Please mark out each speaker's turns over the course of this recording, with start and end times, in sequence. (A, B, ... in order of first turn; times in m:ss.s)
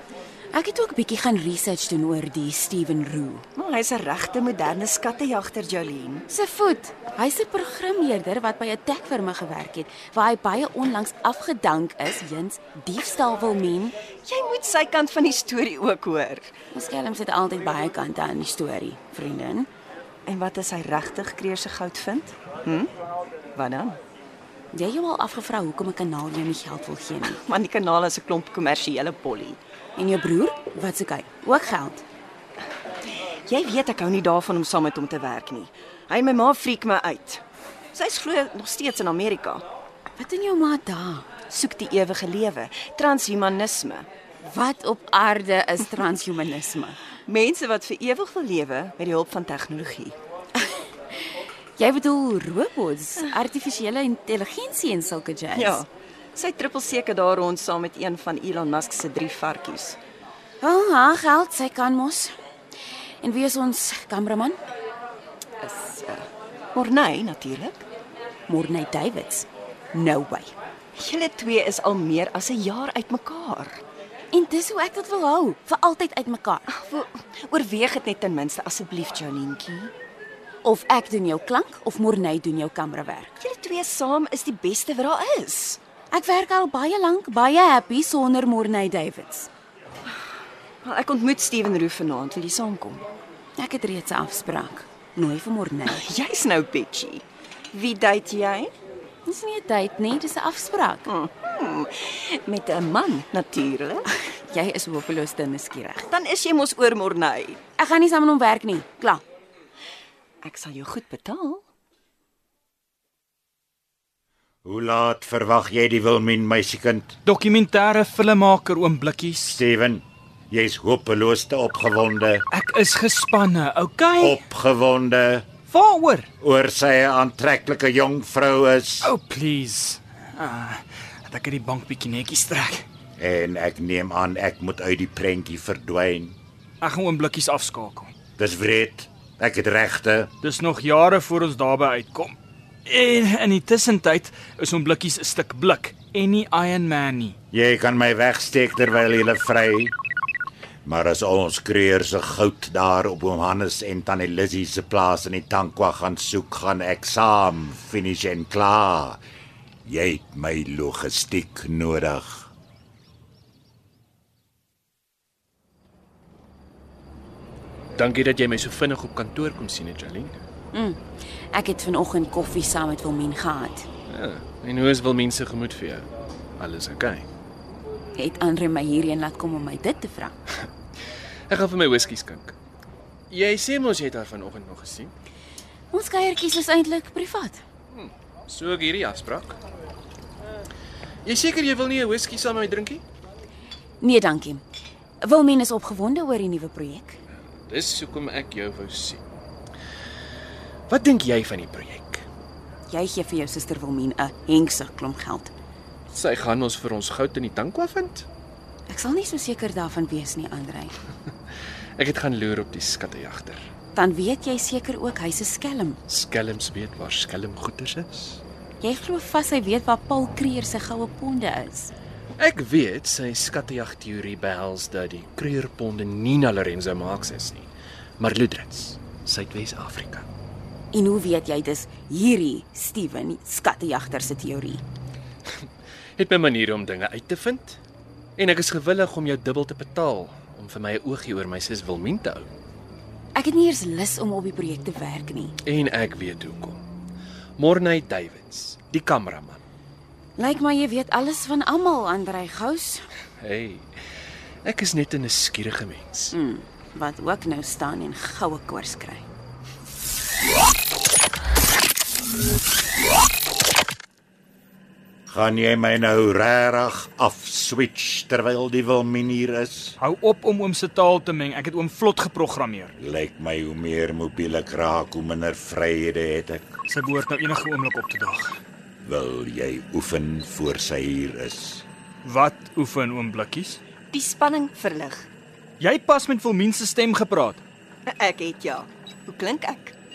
0:00.5-0:03.4 A
0:03.6-0:06.2 B
0:06.3-0:13.9 A
0:14.2-0:16.5 B
0:16.7-0:19.7 A
0:20.2-0:22.9 B
0:23.5-0:24.0 B
0:24.7-0:27.4 A
0:27.2-0:29.6 B
0:30.0-0:32.0 A
0:33.5-0:37.4 B
0:37.9-0:39.6 B
0:40.2-0:41.3 A
0:41.5-0:44.1 B
0:44.4-0:47.0 A
0:47.2-0:50.2 B
0:51.8-0:55.8 A
0:55.5-1:00.0 B
1:00.6-1:02.3 A
1:03.2-1:04.6 A
1:05.6-1:07.8 B
1:08.5-1:10.5 A
1:11.0-1:13.8 B
1:14.3-1:16.7 A
1:16.7-1:19.9 B
1:20.6-1:23.3 A
1:23.4-1:25.8 B
1:26.1-1:29.5 A
1:30.8-1:33.1 B
1:33.6-1:36.0 A
1:35.9-1:38.7 B
1:39.2-1:41.1 A
1:41.1-1:44.0 B
1:44.4-1:46.1 A
1:46.1-1:47.6 B
1:47.8-1:49.2 A
1:50.4-1:51.6 B
1:54.6-1:57.2 C
1:57.2-1:59.6 D
1:59.4-2:02.4 C
2:02.5-2:04.4 D
2:04.2-2:05.5 C
2:05.7-2:06.3 D
2:06.4-2:09.1 C
2:09.0-2:12.8 D
2:13.2-2:16.4 C
2:16.8-2:18.1 D
2:18.4-2:20.3 C
2:20.4-2:22.3 D
2:22.8-2:27.4 D
2:27.5-2:29.9 C
2:30.8-2:39.2 C
2:39.8-2:42.5 C
2:48.0-2:50.4 E
2:50.7-2:51.0 A
2:51.5-2:53.9 A
2:54.1-2:57.3 E
2:58.1-3:00.3 A
3:01.5-3:02.5 E
3:03.3-3:05.1 E
3:05.9-3:07.6 A
3:07.9-3:09.6 E
3:11.2-3:13.0 E
3:14.0-3:14.6 A
3:15.2-3:17.2 A
3:17.7-3:19.2 E
3:20.9-3:22.2 E
3:22.9-3:25.5 A
3:26.1-3:28.3 E
3:28.9-3:30.9 A
3:32.0-3:33.7 E
3:33.9-3:36.0 A
3:36.1-3:38.4 E
3:38.8-3:41.9 A
3:42.4-3:50.3 E
3:50.9-3:54.8 A
3:56.2-3:57.8 E
3:58.4-4:02.5 E
4:03.3-4:05.6 A
4:05.6-4:06.8 E
4:07.6-4:09.6 E
4:10.4-4:13.0 A
4:13.4-4:13.9 E
4:14.6-4:16.3 E
4:16.3-4:19.2 A
4:25.3-4:29.9 C
4:30.0-4:32.9 D
4:33.0-4:36.7 C
4:36.9-4:38.5 D
4:39.0-4:41.8 C
4:42.2-4:43.8 D
4:44.1-4:45.3 B
4:45.8-4:47.6 D
4:48.1-4:49.9 B